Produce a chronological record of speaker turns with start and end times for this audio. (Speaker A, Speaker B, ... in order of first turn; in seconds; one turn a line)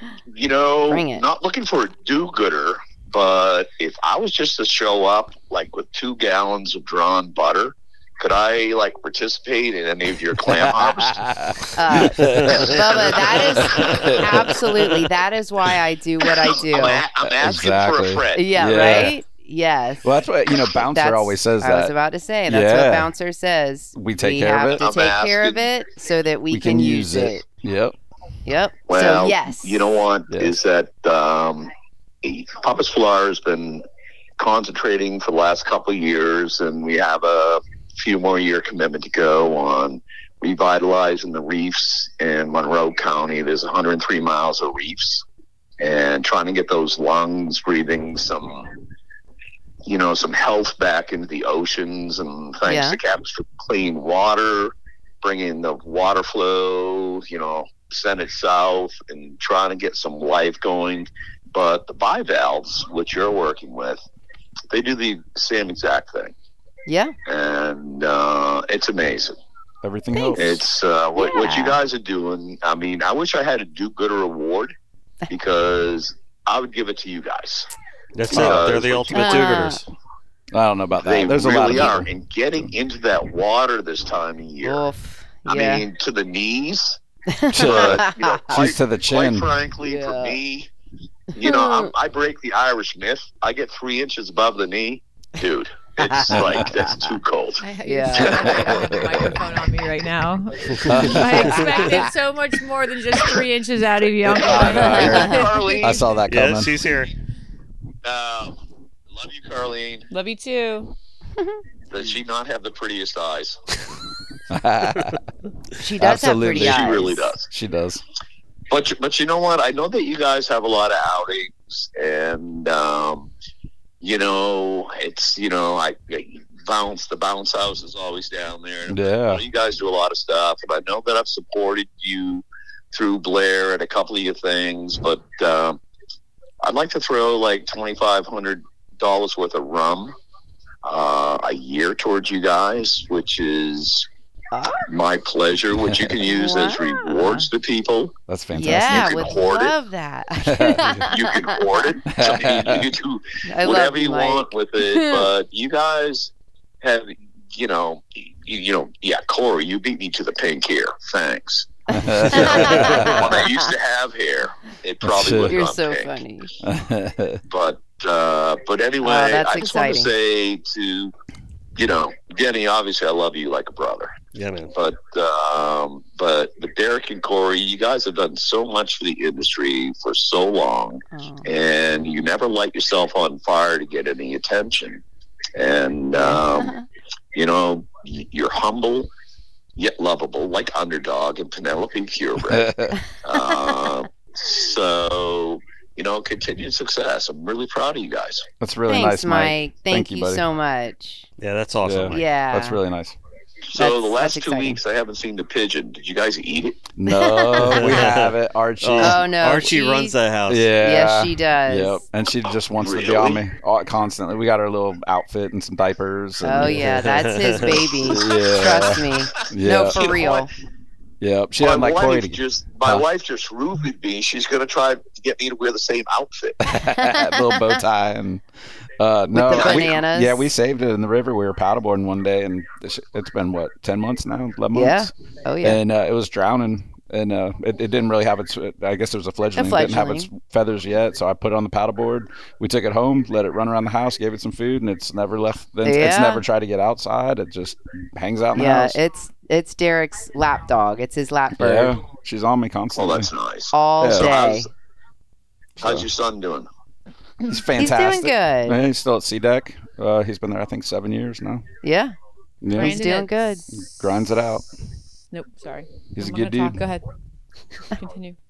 Speaker A: 0.3-11.2
Speaker B: 0.9-1.3
Speaker C: 10.4-12.7
Speaker B: 11.8-17.1
Speaker D: 12.2-12.6
Speaker A: 13.0-13.6
Speaker C: 13.6-14.6
Speaker D: 13.8-15.0
Speaker A: 16.2-19.1
Speaker C: 17.2-19.2
Speaker B: 18.4-20.1
Speaker C: 20.0-21.9
Speaker B: 20.7-27.4
Speaker C: 22.5-23.1
Speaker C: 23.9-24.8
Speaker A: 24.7-25.7
Speaker C: 26.5-27.9
Speaker B: 28.4-29.9
Speaker A: 28.9-31.7
Speaker A: 32.2-33.9
Speaker A: 34.4-45.2
Speaker A: 45.8-48.7
Speaker A: 49.9-64.0
Speaker B: 52.6-53.0
Speaker A: 64.7-66.3
Speaker B: 66.9-67.1
Speaker A: 67.3-69.3
Speaker C: 69.8-70.6
Speaker B: 70.1-70.4
Speaker A: 70.4-74.7
Speaker B: 71.2-71.8
Speaker A: 75.3-77.7
Speaker D: 78.1-79.9
Speaker A: 78.3-79.5
Speaker C: 78.3-78.7
Speaker B: 79.1-79.8
Speaker C: 80.5-82.1
Speaker A: 81.0-84.9
Speaker B: 84.6-85.8
Speaker A: 85.5-87.0
Speaker B: 87.3-88.6
Speaker C: 87.5-89.5
Speaker A: 87.6-90.7
Speaker B: 89.8-90.4
Speaker A: 91.3-97.7
Speaker B: 91.4-91.9
Speaker B: 96.0-97.1
Speaker C: 96.3-96.7
Speaker E: 97.6-106.1
Speaker B: 97.8-99.0
Speaker C: 98.3-99.3
Speaker C: 100.8-101.7
Speaker B: 101.2-102.1
Speaker A: 104.3-106.0
Speaker C: 104.3-106.8
Speaker B: 104.7-105.7
Speaker D: 106.3-107.1
Speaker A: 108.0-108.6
Speaker A: 109.1-110.1
Speaker E: 110.1-110.9
Speaker A: 111.9-113.6
Speaker C: 114.5-115.2
Speaker B: 115.8-117.3
Speaker C: 116.0-118.0
Speaker A: 116.6-117.5
Speaker A: 118.7-123.3
Speaker A: 124.0-135.8
Speaker C: 128.9-129.4
Speaker A: 136.6-140.2
Speaker A: 140.8-144.1
Speaker B: 144.5-144.8
Speaker A: 144.9-148.2
Speaker B: 146.2-147.5
Speaker C: 148.3-149.3
Speaker B: 148.5-151.7
Speaker A: 148.8-149.8
Speaker C: 150.4-151.0
Speaker A: 151.1-161.7
Speaker C: 152.1-152.9
Speaker B: 153.5-155.3
Speaker C: 161.9-163.3
Speaker B: 162.0-163.7
Speaker A: 162.4-166.2
Speaker C: 165.0-165.6
Speaker B: 165.5-166.5
Speaker C: 166.6-167.4
Speaker A: 167.5-171.1
Speaker B: 169.0-170.1
Speaker A: 171.8-174.1
Speaker D: 174.3-174.7
Speaker A: 174.7-185.0
Speaker B: 181.1-181.4
Speaker A: 185.6-186.8
Speaker B: 186.2-186.8
Speaker A: 187.3-189.1
Speaker A: 189.8-192.7
Speaker C: 192.5-193.0
Speaker A: 193.2-198.5
Speaker C: 198.6-200.4
Speaker B: 198.9-201.3
Speaker D: 201.4-202.2
Speaker C: 201.8-203.2
Speaker B: 202.1-202.8
Speaker A: 203.7-206.8
Speaker B: 203.8-204.8
Speaker C: 206.9-209.7
Speaker B: 207.1-208.1
Speaker D: 207.6-210.7
Speaker B: 209.0-210.2
Speaker C: 210.5-217.1
Speaker B: 210.8-212.0
Speaker A: 212.8-213.4
Speaker B: 216.4-220.5
Speaker D: 216.6-217.9
Speaker C: 218.1-220.1
Speaker A: 218.1-218.3
Speaker A: 219.3-220.5
Speaker C: 221.2-223.1
Speaker A: 221.6-226.6
Speaker C: 226.6-228.4
Speaker B: 227.0-227.6
Speaker C: 229.0-235.1
Speaker B: 229.3-230.5
Speaker A: 229.5-229.9
Speaker B: 234.7-235.8
Speaker C: 235.6-249.0
Speaker B: 239.6-240.3
Speaker B: 245.8-246.4
Speaker B: 248.5-251.9
Speaker C: 251.6-253.3
Speaker A: 252.9-254.7
Speaker B: 253.7-254.7
Speaker C: 254.0-254.3
Speaker C: 255.8-256.1
Speaker A: 255.8-256.7
Speaker C: 257.4-261.6
Speaker B: 257.8-258.8
Speaker B: 261.8-262.1
Speaker C: 262.6-263.0
Speaker E: 262.8-263.6
Speaker B: 262.8-263.6
Speaker C: 263.7-264.6
Speaker E: 265.3-267.0
Speaker C: 266.1-266.9
Speaker E: 267.9-268.4